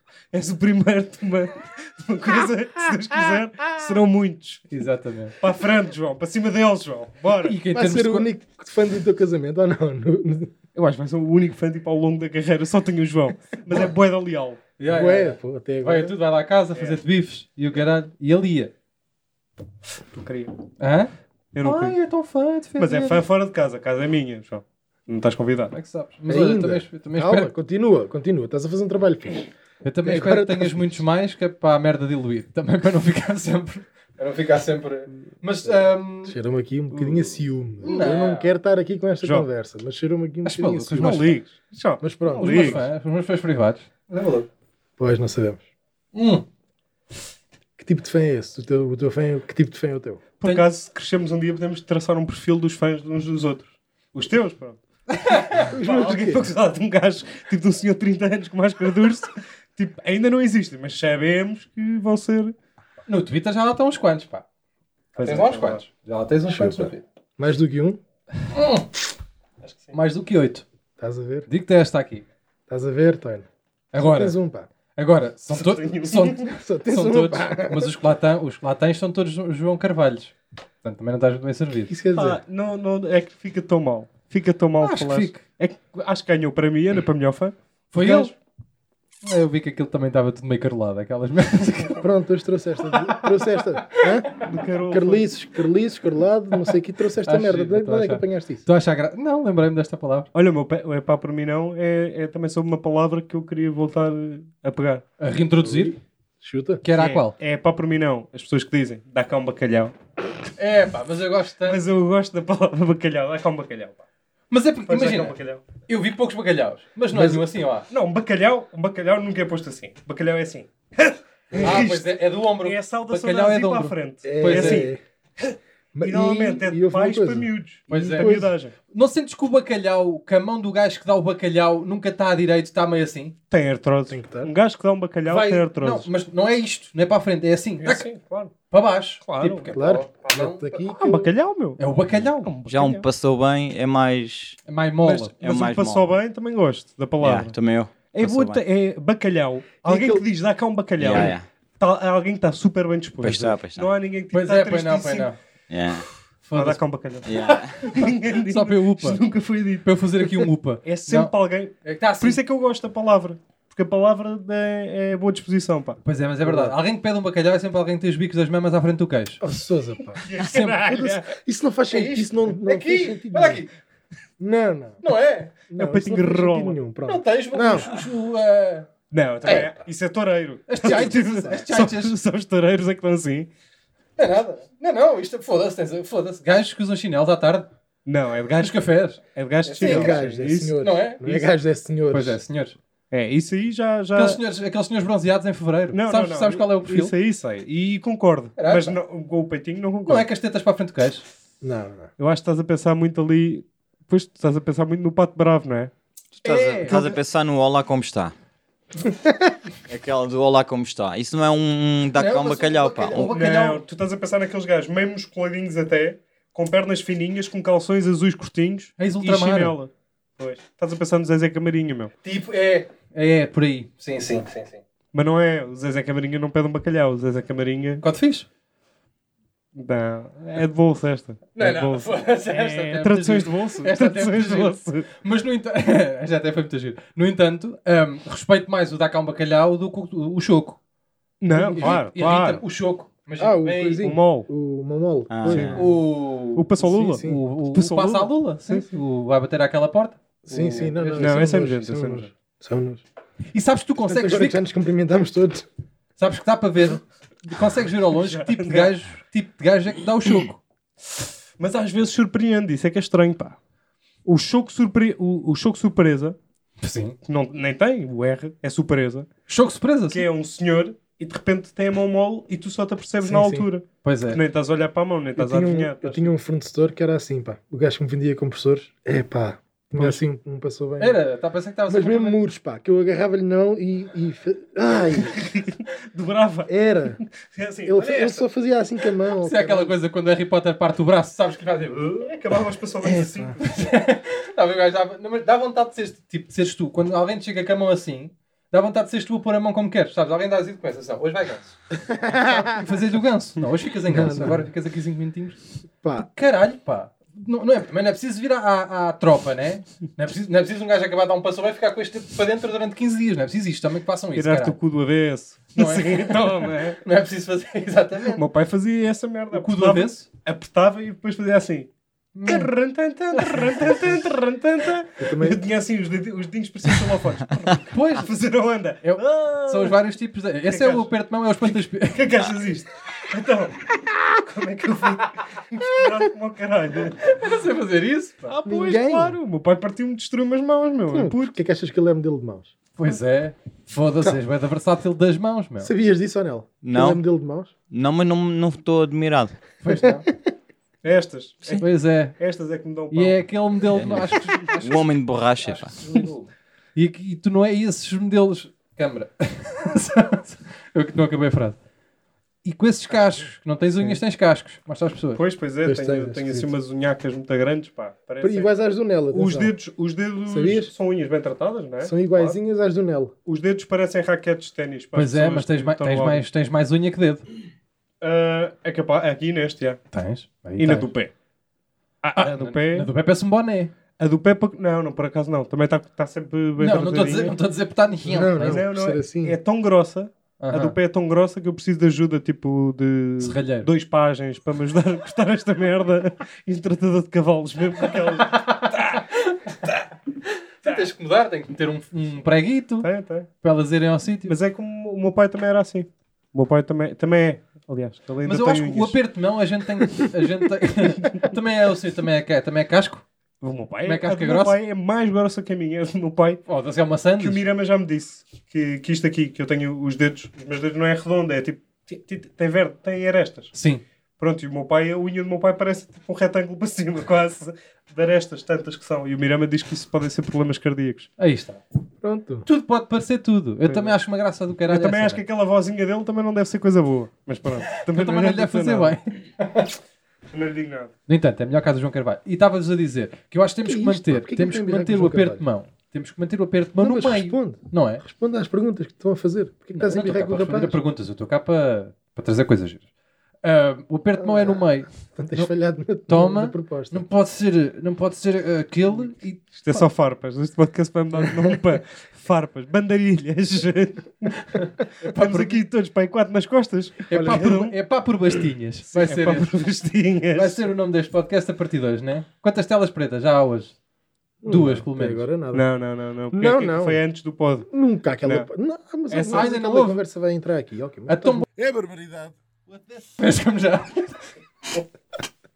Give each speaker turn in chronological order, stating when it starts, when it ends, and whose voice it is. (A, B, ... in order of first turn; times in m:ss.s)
0:00.3-0:04.7 A
0:04.7-0:05.3 B
0:05.4-0:07.6 A
0:07.4-0:08.3 B
0:07.7-0:10.5 C
0:10.7-0:14.6 A
0:14.8-0:18.7 B
0:14.8-0:16.1 C
0:20.1-0:20.5 A
0:20.8-0:21.1 B
0:21.5-0:22.0 A
0:21.6-0:23.2 B
0:22.8-0:25.7 A
0:25.7-0:27.5 B
0:26.3-0:29.5 C
0:29.8-0:36.4 B
0:30.0-0:31.0 C
0:36.2-0:41.3 C
0:36.9-0:38.3 A
0:37.8-0:38.5 B
0:39.2-0:39.5 A
0:40.4-0:41.4 B
0:41.0-0:42.8 A
0:42.0-0:42.8 C
0:42.3-0:44.5 B
0:45.0-0:45.6 C
0:46.1-0:46.4 B
0:47.8-0:50.2 C
0:50.4-0:54.8 A
0:55.1-0:55.7 B
0:55.5-1:02.5 A
0:55.7-0:56.4 C
1:03.1-1:04.4 B
1:05.2-1:05.8 A
1:05.2-1:07.0 B
1:06.5-1:08.0 C
1:08.5-1:08.9 B
1:09.6-1:09.9 A
1:09.9-1:10.6 B
1:11.0-1:11.5 C
1:11.5-1:12.2 B
1:12.7-1:14.7 C
1:13.9-1:14.4 B
1:15.0-1:21.9 B
1:15.5-1:16.5 A
1:16.5-1:17.9 C
1:21.9-1:22.4 C
1:22.1-1:28.3 A
1:24.8-1:25.4 B
1:27.9-1:28.3 B
1:29.2-1:32.0 B
1:32.0-1:38.6 C
1:34.4-1:35.2 A
1:37.2-1:40.3 B
1:40.3-1:45.0 A
1:45.2-1:45.9 B
1:45.6-1:46.8 C
1:46.8-1:47.4 B
1:46.9-1:49.9 A
1:50.6-1:51.8 B
1:51.6-1:54.0 A
1:54.5-1:55.3 B
1:54.9-1:55.6 A
1:55.9-1:57.9 B
1:57.1-1:57.4 C
1:57.9-2:08.7 A
2:01.5-2:01.9 C
2:01.6-2:04.9 B
2:04.2-2:05.0 C
2:05.9-2:08.5 C
2:07.9-2:08.3 B
2:08.9-2:13.3 B
2:13.5-2:16.1 A
2:14.1-2:14.5 C
2:15.3-2:18.1 B
2:17.8-2:18.5 A
2:18.7-2:20.7 B
2:19.2-2:19.7 A
2:19.7-2:21.3 C
2:20.8-2:23.0 A
2:21.8-2:22.5 B
2:22.6-2:24.6 D
2:24.7-2:25.3 B
2:25.0-2:27.6 A
2:25.4-2:26.1 D
2:27.2-2:28.6 D
2:28.1-2:35.3 A
2:29.8-2:30.2 C
2:31.0-2:31.4 D
2:33.2-2:33.9 D
2:34.3-2:35.4 B
2:35.7-2:36.0 D
2:36.4-2:36.8 B
2:36.5-2:39.9 A
2:37.2-2:37.8 D
2:37.4-2:39.2 B
2:39.8-2:41.3 B
2:40.8-2:46.0 A
2:41.8-2:42.4 B
2:46.0-2:49.4 B
2:46.4-2:46.8 C
2:49.4-2:50.2 C
2:50.2-2:51.3 A
2:50.3-2:51.0 B
2:50.8-2:53.6 C
2:51.9-2:53.7 B
2:54.4-2:55.0 C
2:55.0-2:55.5 B
2:55.7-2:58.0 C
2:55.8-2:56.8 A
2:57.0-2:58.9 B
2:59.1-3:03.5 A
3:00.7-3:02.1 B
3:00.8-3:01.6 C
3:04.2-3:07.7 B
3:08.0-3:10.8 A
3:08.6-3:10.2 B
3:09.8-3:12.4 C
3:10.8-3:11.5 B
3:12.1-3:12.8 B
3:13.1-3:14.4 A
3:14.1-3:17.1 B
3:15.9-3:20.2 A
3:18.6-3:19.0 B
3:20.0-3:21.2 B
3:21.6-3:22.1 C
3:22.2-3:25.9 A
3:26.4-3:27.0 B
3:26.4-3:28.3 D
3:26.8-3:27.2 A
3:29.0-3:29.5 C
3:29.9-3:33.3 D
3:32.1-3:33.8 B
3:33.1-3:42.1 A
3:39.0-3:39.8 B
3:42.2-3:44.8 B
3:45.1-3:48.0 A
3:48.0-3:48.4 B
3:49.7-3:55.1 A
3:51.5-4:00.8 B
4:01.4-4:02.6 A
4:01.5-4:04.0 B
4:03.4-4:05.9 C
4:04.0-4:04.5 A
4:05.3-4:05.8 D
4:05.4-4:05.8 A
4:05.8-4:11.4 B
4:06.5-4:08.8 A
4:06.8-4:07.4 C
4:10.4-4:13.0 C
4:11.1-4:12.3 A
4:13.5-4:14.6 B
4:14.0-4:15.6 C
4:16.2-4:20.6 B
4:18.1-4:18.9 A
4:21.1-4:23.6 A
4:24.2-4:26.4 A
4:26.8-4:27.2 B
4:27.2-4:29.3 A
4:29.5-4:30.2 B
4:30.1-4:36.3 A
4:33.2-4:33.7 C
4:34.0-4:34.4 B
4:35.4-4:41.2 C
4:41.0-4:42.4 B
4:41.9-4:45.4 C
4:45.2-4:46.7 A
4:46.7-4:47.2 C
4:47.2-4:48.5 A
4:47.8-4:50.0 C
4:49.4-4:52.3 B
4:52.2-4:53.6 A
4:53.1-4:53.5 C
4:53.5-5:05.6 B
5:02.0-5:02.8 C
5:04.1-5:04.7 C
5:06.0-5:06.3 C
5:06.1-5:14.8 B
5:14.3-5:17.0 A
5:15.7-5:18.4 B
5:18.3-5:21.9 A
5:19.5-5:20.3 B
5:22.3-5:22.7 B
5:22.4-5:30.0 A
5:23.4-5:23.8 B
5:25.2-5:25.6 C
5:27.9-5:28.3 B
5:29.0-5:32.3 B
5:30.7-5:31.1 A
5:31.6-5:37.3 A
5:37.2-5:38.5 B
5:38.5-5:41.5 A
5:38.6-5:39.4 C
5:41.1-5:42.7 C
5:43.0-5:45.9 B
5:45.8-5:47.7 C
5:46.8-5:47.2 D
5:47.9-5:49.6 D
5:49.8-5:50.3 B
5:51.0-5:53.4 A
5:51.8-5:52.4 B
5:53.1-5:55.1 B
5:53.9-5:55.9 D
5:55.7-5:56.4 A
5:57.0-6:01.8 B
6:02.6-6:05.4 B
6:05.4-6:08.7 A
6:05.8-6:06.7 C
6:08.4-6:09.7 C
6:09.3-6:12.6 A
6:10.4-6:10.9 C
6:12.0-6:13.3 C
6:13.5-6:16.4 A
6:15.1-6:17.4 B
6:18.2-6:20.0 A
6:20.1-6:21.1 B
6:20.8-6:21.3 A
6:22.2-6:23.1 A
6:22.4-6:23.9 B
6:24.2-6:27.5 A
6:26.8-6:28.8 B
6:28.2-6:29.6 C
6:28.6-6:38.9 A
6:30.6-6:31.0 B
6:33.4-6:33.9 B
6:38.4-6:43.1 B
6:43.0-6:43.5 A
6:43.6-6:44.5 B
6:44.4-6:49.2 A
6:48.4-6:53.2 B
6:53.6-6:56.6 A
6:54.0-6:54.7 B
6:56.6-6:57.6 B
6:57.4-7:03.7 A
7:03.7-7:04.0 B
7:04.4-7:11.3 A
7:11.4-7:11.8 B
7:12.2-7:12.7 C
7:12.6-7:15.4 B
7:13.8-7:14.2 A
7:14.8-7:19.2 A
7:18.0-7:19.9 B
7:20.5-7:21.1 A
7:21.3-7:28.2 B
7:23.8-7:25.6 C
7:27.0-7:31.0 C
7:30.0-7:33.0 B
7:33.6-7:35.7 B
7:34.4-7:37.2 C
7:36.2-7:40.0 B
7:39.8-7:47.9 A
7:44.6-7:45.8 B
7:47.3-7:49.7 B
7:47.3-7:47.7 C
7:49.1-7:50.8 A
7:50.5-7:53.9 B
7:54.6-7:55.8 C
7:54.6-7:55.4 B
7:55.7-7:57.9 A
7:56.5-7:57.2 C
7:57.9-8:02.5 C
7:59.3-7:59.8 A
7:59.5-8:00.2 B
8:01.3-8:01.6 B
8:03.4-8:04.4 B